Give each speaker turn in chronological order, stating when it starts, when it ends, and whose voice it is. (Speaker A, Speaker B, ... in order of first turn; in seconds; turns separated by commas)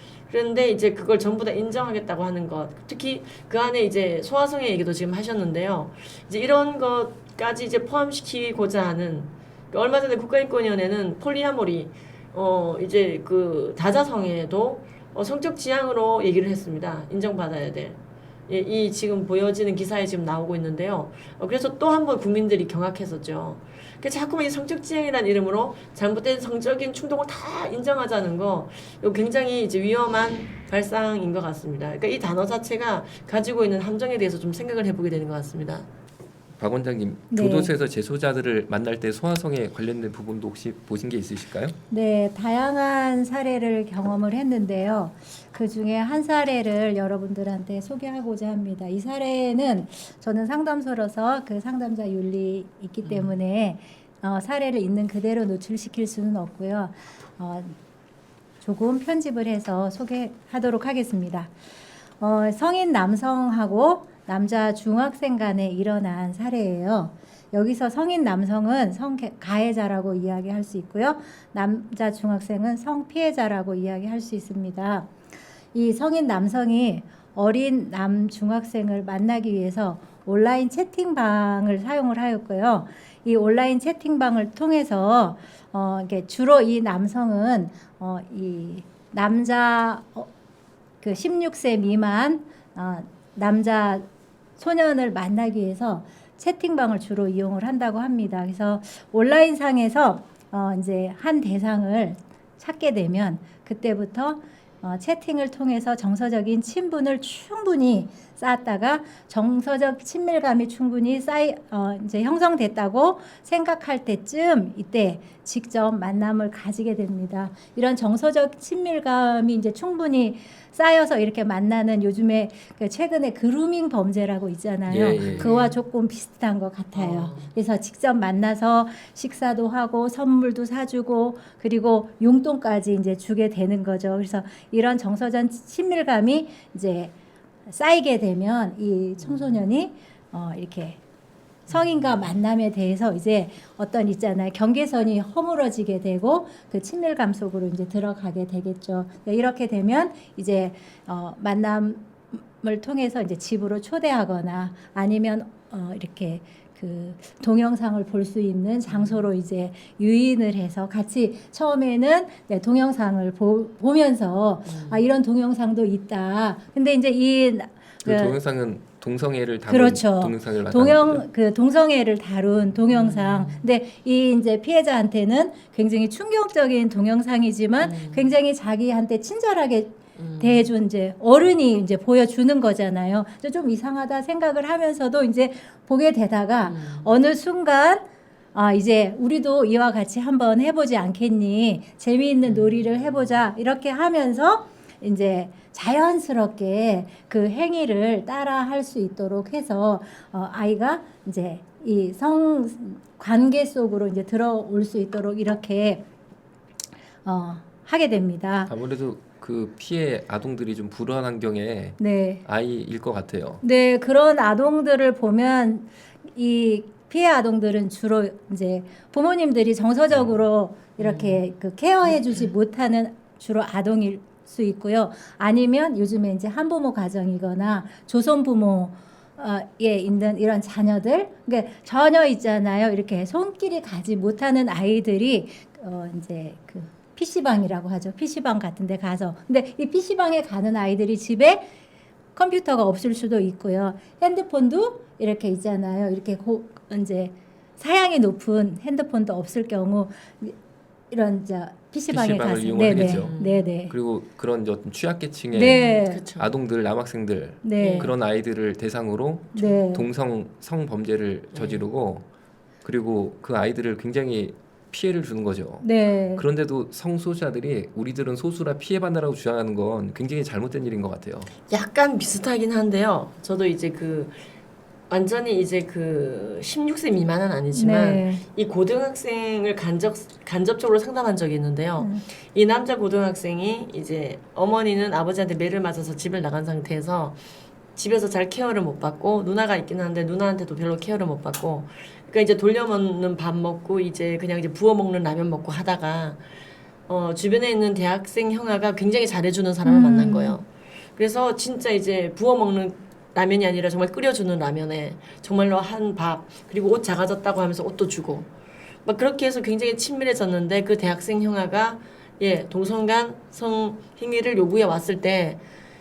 Speaker A: 0.3-35.9, Speaker B: 36.6-41.8, Speaker C: 37.3-37.7, Speaker C: 41.9-57.8, Speaker A: 53.0-53.4, Speaker C: 58.6-61.5, Speaker C: 62.2-75.1, Speaker C: 75.7-90.3, Speaker C: 91.0-94.0, Speaker C: 94.6-137.1, Speaker B: 124.9-125.5, Speaker A: 125.2-125.7, Speaker A: 126.9-127.5, Speaker C: 137.7-141.0, Speaker A: 139.2-139.6, Speaker C: 141.7-168.4, Speaker A: 141.7-142.3, Speaker A: 158.9-159.2, Speaker A: 164.6-165.1, Speaker B: 168.0-171.2, Speaker C: 169.7-206.0, Speaker A: 172.9-173.7, Speaker A: 177.8-178.3, Speaker A: 180.2-180.7, Speaker A: 186.6-187.2, Speaker A: 192.4-193.0, Speaker C: 207.2-208.7, Speaker B: 208.7-213.6, Speaker C: 212.0-212.4, Speaker C: 213.6-241.7, Speaker A: 221.0-221.4, Speaker A: 222.1-222.5, Speaker C: 242.3-250.6, Speaker C: 251.1-253.9, Speaker B: 252.1-253.3, Speaker A: 252.9-253.7, Speaker B: 253.9-262.2, Speaker C: 255.5-256.2, Speaker A: 255.6-256.5, Speaker C: 257.6-258.1, Speaker A: 257.8-258.1, Speaker C: 259.5-260.1, Speaker A: 261.5-261.8, Speaker B: 262.8-271.6, Speaker C: 265.8-266.4, Speaker A: 271.7-274.4, Speaker A: 275.1-287.4, Speaker C: 277.7-278.4, Speaker C: 282.0-282.2, Speaker A: 287.9-296.4, Speaker A: 297.1-308.5, Speaker C: 299.8-300.6, Speaker A: 309.0-315.6